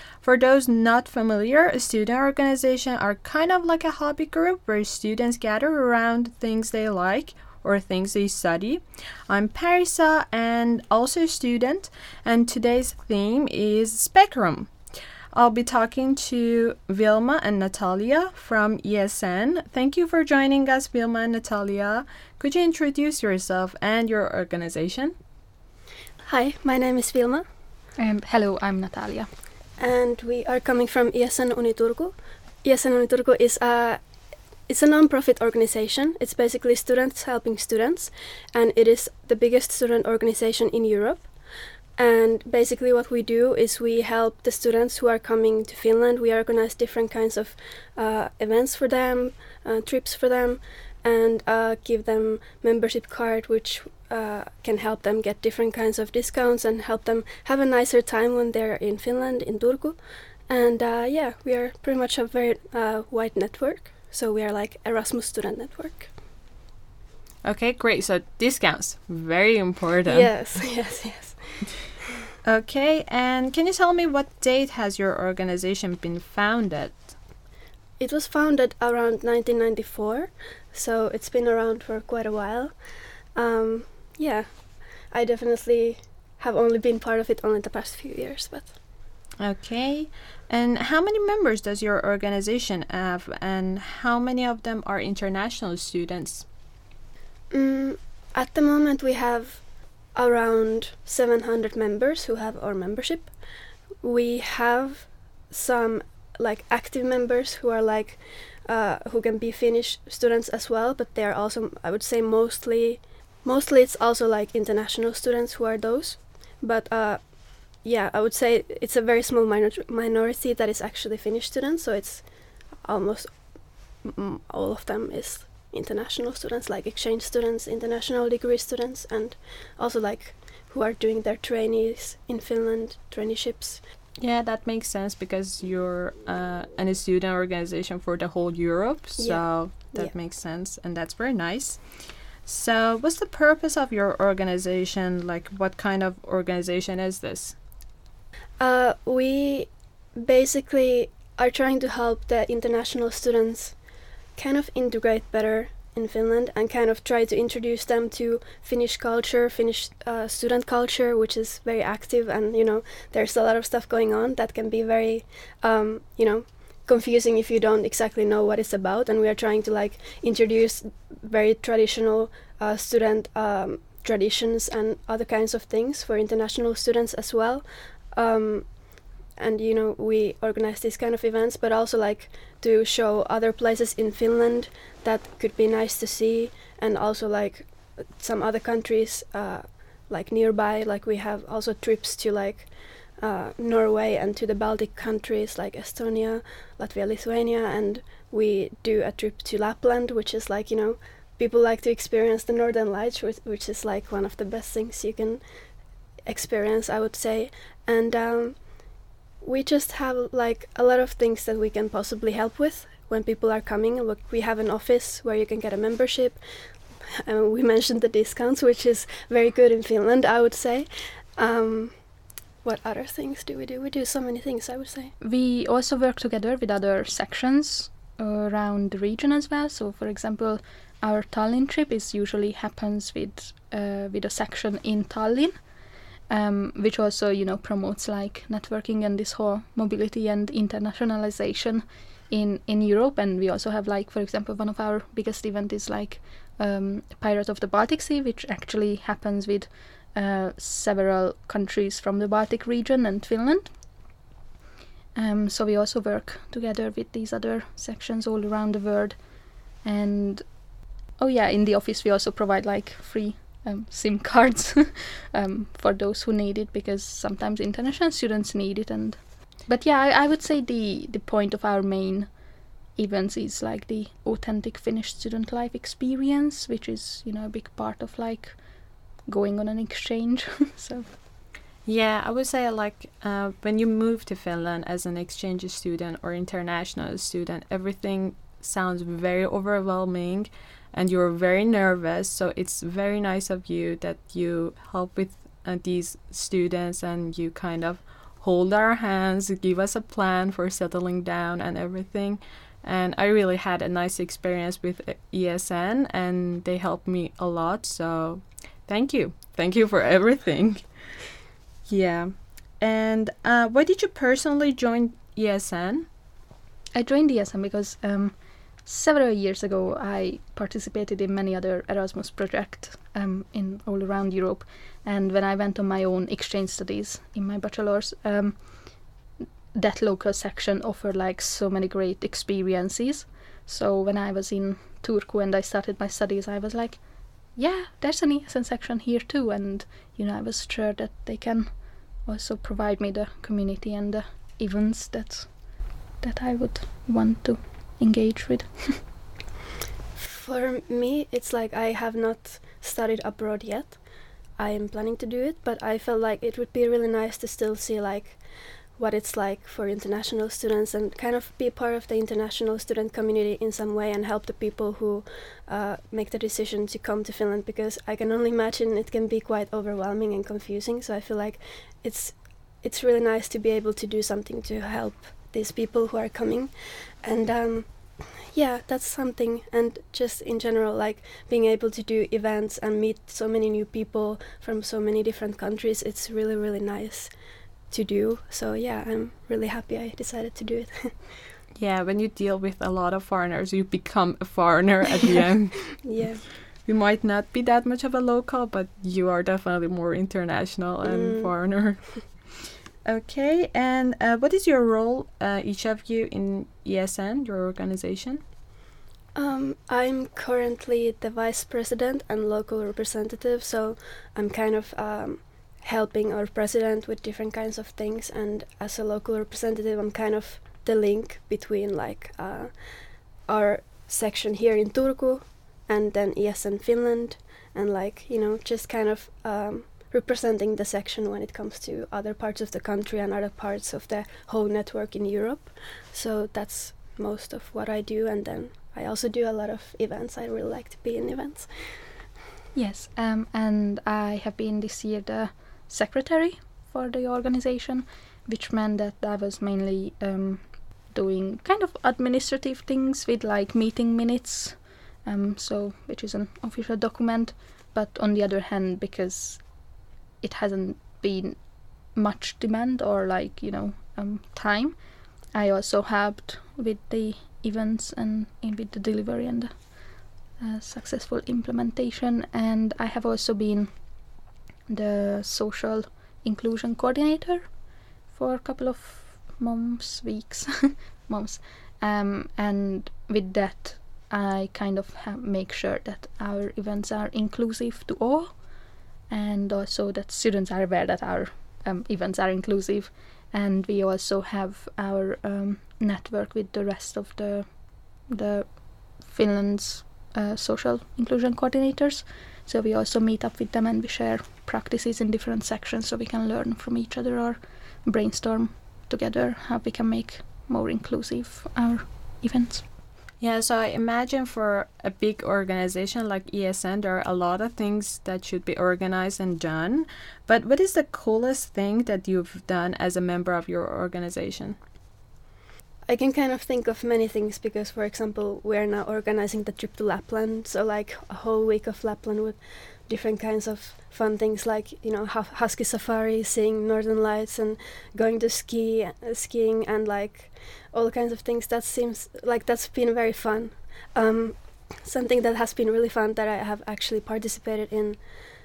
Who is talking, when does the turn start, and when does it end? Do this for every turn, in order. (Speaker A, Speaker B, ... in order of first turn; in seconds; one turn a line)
Speaker A: 0.2-14.7
Speaker A: 15.3-25.1
Speaker B: 26.2-27.4
Speaker C: 28.0-29.3
Speaker B: 29.8-34.0
Speaker B: 34.7-41.3
Speaker B: 42.0-66.1
Speaker A: 67.4-70.3
Speaker B: 70.1-71.8
Speaker A: 72.4-77.1
Speaker B: 78.0-88.8
Speaker A: 89.4-96.5
Speaker B: 97.5-103.3
Speaker B: 104.0-133.8
Speaker A: 134.2-141.8
Speaker B: 139.2-140.1
Speaker A: 142.4-147.6
Speaker B: 148.6-153.8
Speaker B: 154.3-178.8
Speaker B: 179.3-205.4
Speaker B: 206.2-208.7
Speaker B: 209.4-222.0
Speaker B: 222.6-225.1
Speaker C: 225.2-235.6
Speaker C: 236.3-253.7
Speaker C: 255.1-259.3
Speaker C: 259.8-260.6
Speaker C: 261.2-272.3
Speaker C: 272.9-278.6
Speaker C: 279.2-281.1
Speaker A: 281.9-310.9
Speaker A: 311.9-316.1
Speaker C: 316.9-328.9
Speaker C: 329.7-345.5
Speaker C: 346.2-349.0
Speaker B: 350.1-354.0
Speaker B: 354.6-387.3
Speaker B: 387.9-391.4
Speaker A: 391.8-396.1
Speaker B: 396.0-396.5
Speaker A: 396.8-402.5
Speaker B: 401.0-401.9
Speaker A: 403.1-408.4
Speaker B: 409.3-442.1
Speaker C: 442.7-459.8
Speaker C: 460.4-465.0
Speaker C: 465.5-473.9
Speaker C: 474.9-477.8
Speaker C: 478.3-497.7
Speaker C: 498.3-512.9
Speaker A: 513.4-524.8
Speaker B: 526.1-548.2